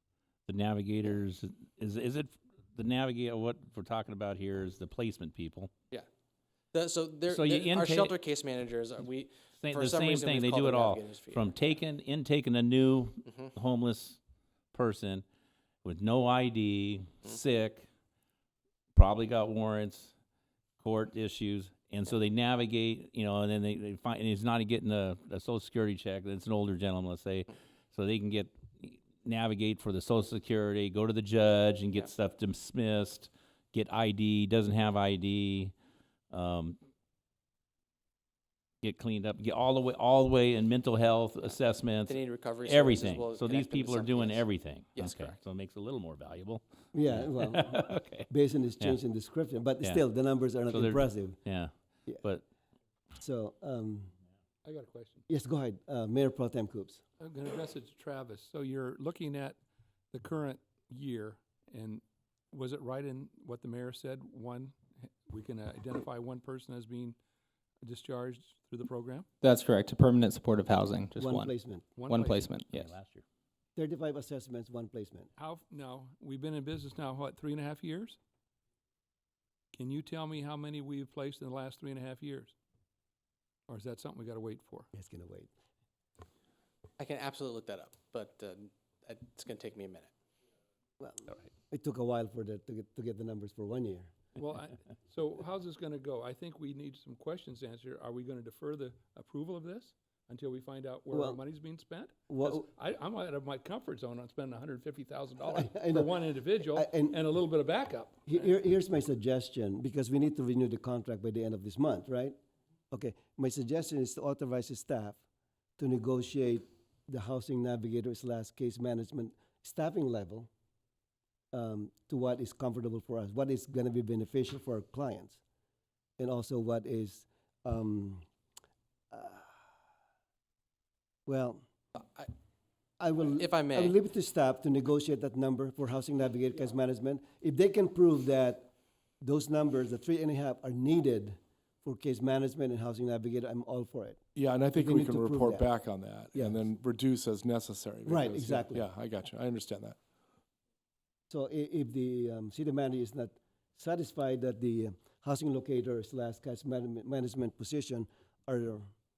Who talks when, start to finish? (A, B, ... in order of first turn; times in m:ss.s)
0:00.5-0:05.7 A
0:06.7-0:11.7 B
0:07.3-0:08.2 A
0:09.6-0:14.2 A
0:14.7-0:15.2 A
0:15.8-0:17.9 A
0:18.9-0:20.1 A
0:20.8-0:35.7 A
0:36.3-0:36.8 A
0:38.8-0:48.3 A
0:42.0-0:45.4 B
0:46.9-0:51.4 C
0:50.7-0:52.4 A
0:53.1-0:54.1 C
0:54.6-0:55.2 D
0:55.3-0:57.0 C
0:57.2-0:59.6 D
1:00.1-1:07.2 D
1:07.8-1:09.3 D
1:09.4-1:11.5 E
1:11.2-1:11.9 C
1:12.0-1:12.6 D
1:12.1-1:12.9 E
1:12.7-1:13.2 A
1:13.8-1:15.3 C
1:15.4-1:18.2 D
1:19.7-1:22.5 D
1:23.7-1:24.9 D
1:24.9-1:25.5 C
1:27.0-1:30.1 B
1:31.0-1:34.1 C
1:34.4-1:48.5 D
1:41.1-1:41.4 C
1:42.3-1:42.7 C
1:45.4-1:47.2 C
1:48.3-1:52.4 C
1:52.9-1:55.2 C
1:55.8-2:00.5 C
2:01.5-2:05.4 C
2:06.2-2:08.2 C
2:09.1-2:09.5 C
2:11.3-2:11.6 C
2:12.0-2:12.3 B
2:13.0-2:25.7 C
2:13.3-2:13.9 B
2:24.4-2:30.0 F
2:26.3-2:26.7 C
2:28.0-2:28.9 C
2:31.3-2:38.9 C